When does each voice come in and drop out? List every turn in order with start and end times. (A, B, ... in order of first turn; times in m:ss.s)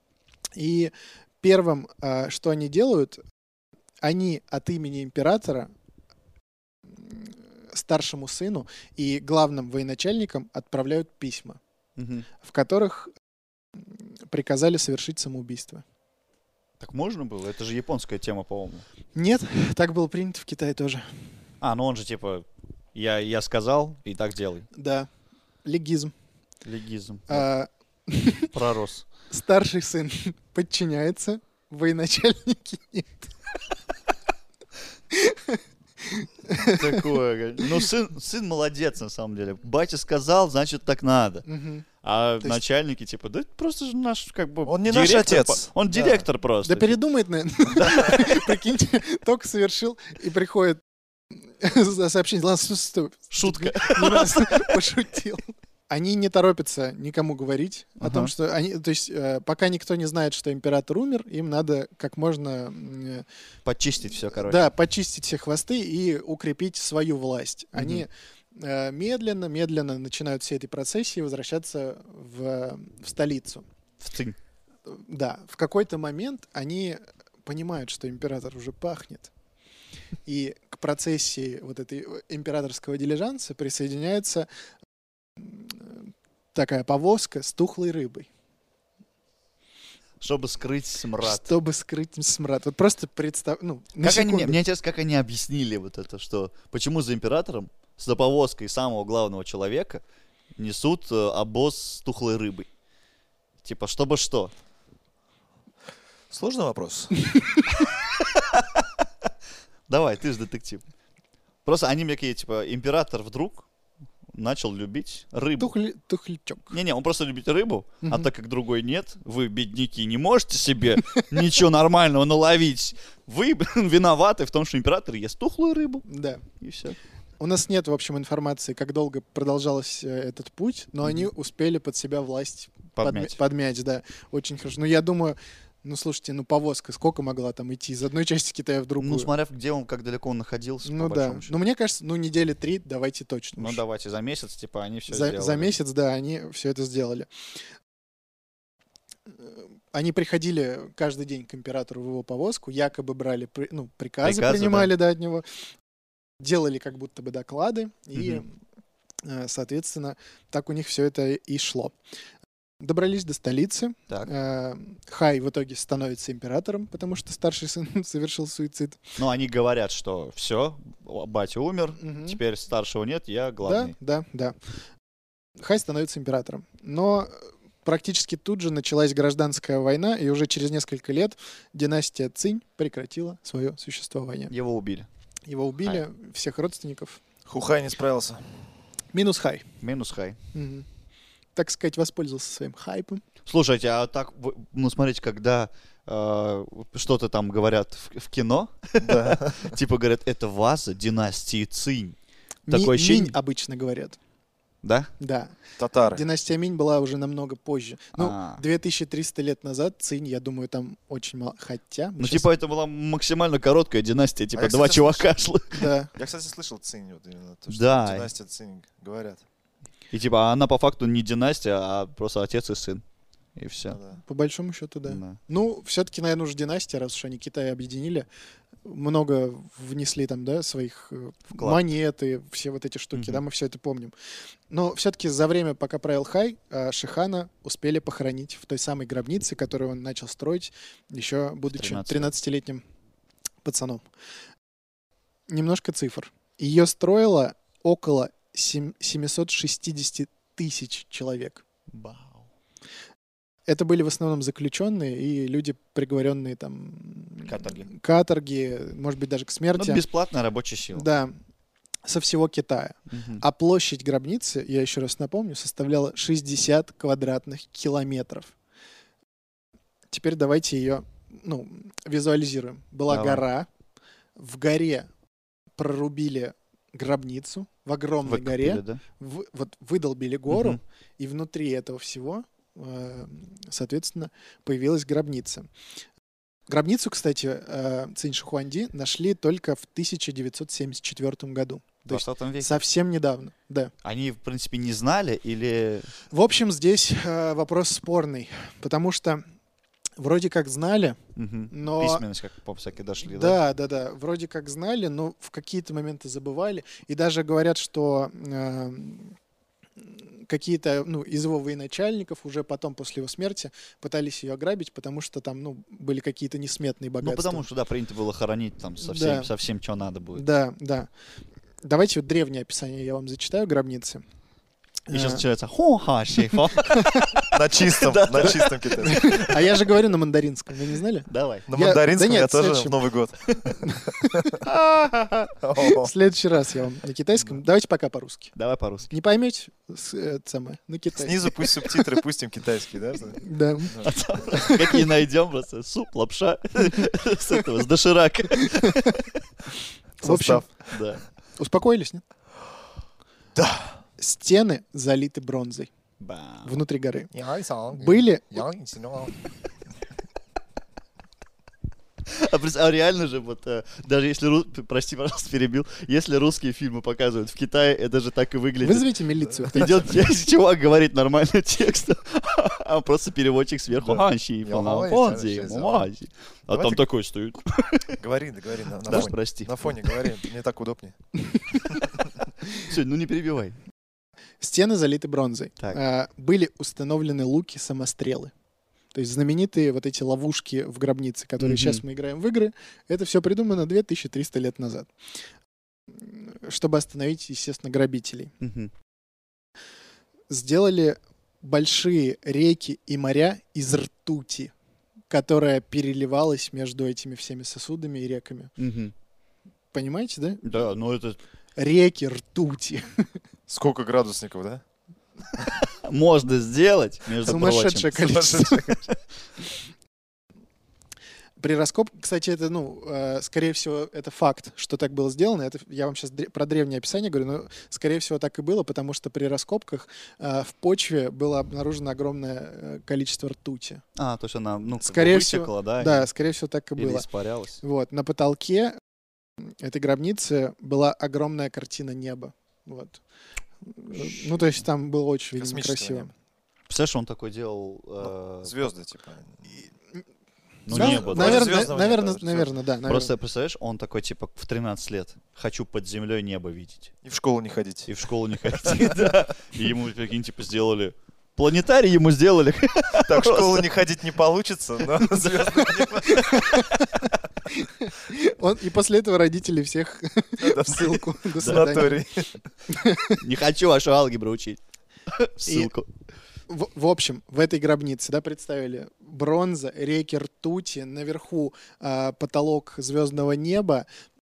0:00.6-0:03.2 A
0:04.0-0:05.7 A
0:07.0-0:11.6 A
0:12.0-0:12.3 B
0:12.4-0:13.1 A
0:13.8-0:15.8 A
0:16.8-0:18.8 B
0:19.1-0:21.2 A
0:21.6-0:24.7 B
0:24.7-0:25.1 A
0:25.6-0:26.1 A
0:26.6-0:27.4 B
0:27.3-0:28.5 A
0:28.5-0:29.0 B
0:29.3-0:33.3 A
0:35.1-0:37.0 A
0:36.6-0:41.4 B
0:41.4-0:41.8 A
0:42.0-0:47.0 B
0:44.6-0:46.2 C
0:46.6-0:50.8 A
0:47.8-0:48.3 B
0:51.3-1:03.2 A
0:53.3-0:54.8 B
0:58.0-0:58.3 B
1:03.6-1:04.7 B
1:04.3-1:13.6 A
1:07.8-1:08.0 B
1:14.0-1:14.4 B
1:14.9-1:19.3 A
1:20.2-1:24.5 A
1:25.4-1:28.3 A
1:30.2-1:31.5 B
1:31.2-1:34.6 A
1:34.0-1:40.0 B
1:40.6-1:42.7 B
1:43.6-1:44.5 B
1:46.3-1:47.1 C
1:47.7-1:48.8 B
1:49.9-1:50.8 B
1:51.6-1:53.7 B
1:54.3-1:55.7 B
1:55.6-1:56.7 A
1:56.7-2:06.1 B
1:58.0-1:58.3 A
2:06.1-2:06.4 A
2:06.6-2:07.0 B
2:07.4-2:19.3 A
2:13.0-2:13.4 B
2:19.0-2:21.5 B
2:20.8-2:23.8 A
2:23.6-2:25.7 B
2:25.1-2:27.3 A
2:29.4-2:35.4 A
2:34.2-2:34.9 B
2:36.4-2:38.6 A
2:38.1-2:38.4 B
2:39.2-2:41.9 A
2:42.8-2:49.0 A
2:49.2-2:53.9 B
2:52.0-2:52.4 A
2:53.6-2:54.6 A
2:55.6-3:04.5 A
3:04.5-3:05.1 B
3:05.5-3:07.2 A
3:07.4-3:08.6 C
3:09.1-3:09.6 A
3:09.8-3:10.4 B
3:10.5-3:10.9 A
3:11.6-3:13.2 A
3:13.4-3:22.2 B
3:19.0-3:19.8 C
3:22.7-3:24.2 A
3:22.7-3:23.4 B
3:24.8-3:25.1 B
3:25.2-3:25.6 A
3:25.8-3:26.2 C
3:26.1-3:32.5 A
3:28.2-3:28.6 B
3:32.2-3:35.9 B
3:34.5-3:35.3 C
3:35.7-3:36.1 A
3:36.1-3:39.4 C
3:37.7-3:38.3 B
3:40.1-3:43.0 B
3:43.6-3:44.0 B
3:43.9-3:44.2 C
3:44.2-3:48.3 A
3:45.0-3:45.4 B
3:48.8-3:54.1 A
3:51.5-3:51.8 B
3:53.1-3:53.4 B
3:54.7-4:02.8 A
4:01.7-4:02.3 B
4:03.6-4:04.0 A
4:05.5-4:11.6 A
4:11.9-4:12.5 B
4:13.7-4:20.0 A
4:17.4-4:17.9 B
4:19.7-4:21.1 B
4:20.9-4:21.4 A
4:22.0-4:28.5 A
4:23.1-4:23.4 B
4:30.1-4:33.7 A
4:33.1-4:33.4 B
4:34.4-4:35.1 A
4:35.8-4:45.7 A
4:38.2-4:39.0 B
4:40.5-4:40.8 B
4:46.7-4:53.9 A
4:52.1-4:52.8 B
4:54.0-4:56.1 B
4:56.3-4:59.4 A
5:00.2-5:01.2 A
5:01.4-5:03.6 B
5:01.7-5:02.2 A
5:03.2-5:09.4 A
5:10.0-5:17.6 A
5:17.2-5:20.4 B
5:19.0-5:19.5 A
5:20.3-5:21.1 A
5:21.8-5:24.2 A
5:25.1-5:25.4 A
5:25.1-5:29.1 B
5:26.7-5:27.4 A
5:27.5-5:29.7 C
5:29.0-5:33.0 A
5:31.3-5:31.7 B
5:31.7-5:34.6 C
5:33.8-5:38.5 A
5:35.6-5:36.1 C
5:38.6-5:39.1 B
5:39.1-5:42.0 A
5:41.1-5:44.2 C
5:43.4-5:44.0 A
5:44.0-5:49.3 B
5:44.5-5:45.0 A
5:48.5-5:49.2 A
5:50.2-5:50.6 A
5:50.2-5:50.8 C
5:50.8-5:51.2 B
5:51.6-5:52.2 A
5:53.5-5:54.0 C
5:54.2-5:55.9 A
5:56.2-5:56.8 B
5:56.6-5:57.3 A
5:57.3-5:59.3 C
5:57.9-5:58.6 A
6:02.3-6:09.1 B
6:08.8-6:10.1 A
6:09.7-6:18.2 B
6:13.9-6:16.1 C
6:16.7-6:17.0 C
6:18.2-6:21.1 C
6:19.0-6:20.3 B
6:22.7-6:23.8 B
6:24.6-6:28.5 A
6:29.1-6:35.1 A
6:31.6-6:32.0 B
6:36.1-6:38.5 A
6:38.6-6:38.9 B
6:40.5-6:44.7 A
6:45.3-6:48.7 A
6:48.8-6:49.1 B
6:49.9-6:50.6 A
6:50.6-6:51.4 B
6:51.8-6:53.3 A
6:53.7-6:54.8 C
6:55.6-6:58.6 B
6:57.4-6:59.0 A
6:58.2-6:59.1 C
7:01.6-7:14.0 A
7:14.2-7:16.3 B
7:15.0-7:17.3 A
7:17.0-7:17.8 B
7:17.8-7:19.0 A
7:19.6-7:23.2 A
7:23.8-7:26.3 A
7:25.6-7:26.3 C
7:26.9-7:28.9 B
7:28.2-7:29.8 C
7:30.9-7:31.9 B
7:30.9-7:33.3 A
7:30.9-7:32.7 C
7:33.0-7:37.1 B
7:37.2-7:38.1 C
7:38.1-7:43.9 B
7:38.6-7:39.4 C
7:43.2-7:46.8 C
7:46.2-7:52.2 A
7:50.6-7:52.6 C
7:51.6-7:52.0 B
7:52.9-7:53.4 A
7:53.4-7:54.8 B
7:55.3-7:56.0 B
7:55.6-7:55.9 A
7:56.7-8:04.1 A